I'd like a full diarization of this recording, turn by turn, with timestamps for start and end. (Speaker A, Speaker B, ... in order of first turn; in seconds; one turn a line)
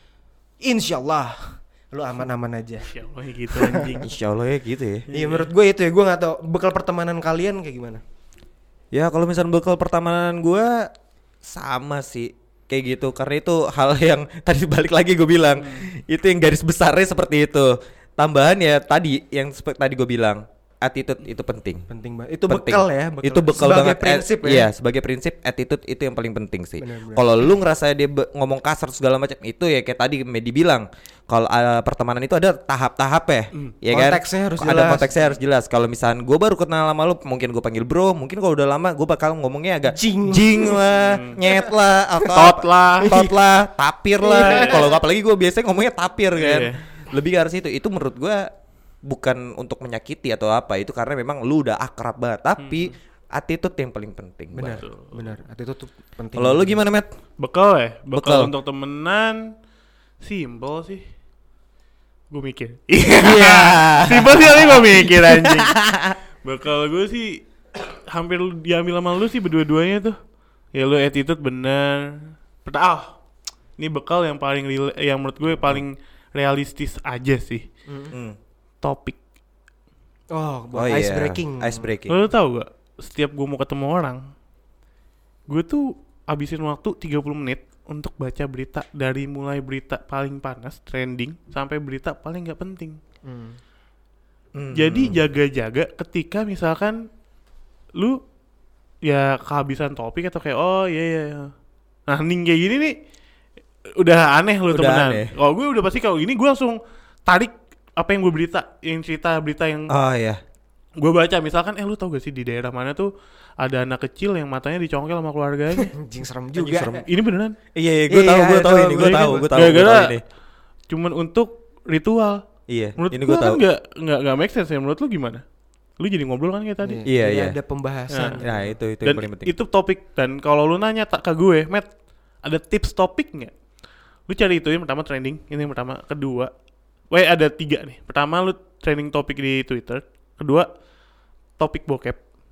Speaker A: 0.6-2.9
Speaker B: 2.9-4.2
Speaker A: 3.5-3.9
Speaker C: 4.0-5.0
Speaker B: 5.1-5.5
Speaker A: 5.1-8.0
Speaker C: 8.9-10.9
Speaker C: 11.4-21.9
Speaker A: 21.9-24.7
Speaker C: 22.5-48.5
Speaker A: 26.8-27.5
Speaker A: 33.9-35.1
Speaker A: 39.9-40.9
Speaker B: 40.9-41.4
Speaker A: 41.4-41.7
Speaker B: 42.3-43.1
Speaker A: 43.0-43.4
Speaker A: 44.2-44.9
Speaker B: 44.5-44.8
Speaker B: 46.4-46.8
Speaker C: 49.0-54.8
Speaker B: 52.6-52.9
Speaker A: 54.5-56.8
Speaker B: 54.8-55.2
Speaker C: 56.4-57.1
Speaker B: 57.4-59.4
Speaker C: 58.1-58.5
Speaker B: 60.2-61.0
Speaker B: 62.3-65.8
Speaker C: 63.2-66.2
Speaker B: 66.4-70.2
Speaker B: 70.8-72.1
Speaker B: 72.6-73.1
Speaker B: 73.8-77.7
Speaker A: 77.9-78.1
Speaker C: 78.1-78.4
Speaker B: 78.8-79.2
Speaker A: 80.3-81.9
Speaker C: 80.7-82.2
Speaker B: 82.1-84.2
Speaker B: 85.5-93.0
Speaker A: 93.3-93.6
Speaker C: 94.5-95.2
Speaker B: 94.7-97.0
Speaker B: 99.1-101.5
Speaker B: 102.1-102.9
Speaker B: 104.0-109.9
Speaker C: 104.7-105.3
Speaker C: 109.9-110.4
Speaker B: 111.0-115.9
Speaker A: 115.8-117.1
Speaker C: 116.5-117.1
Speaker B: 117.0-117.5
Speaker C: 117.8-120.2
Speaker A: 118.1-119.5
Speaker B: 119.0-120.2
Speaker B: 120.9-122.4
Speaker C: 122.7-123.6
Speaker B: 123.0-125.4
Speaker B: 126.0-127.0
Speaker A: 126.8-128.7
Speaker C: 127.1-127.5
Speaker C: 128.4-129.5
Speaker B: 129.0-131.9
Speaker B: 132.4-133.6
Speaker B: 134.3-136.5
Speaker B: 137.1-140.7
Speaker B: 141.6-142.2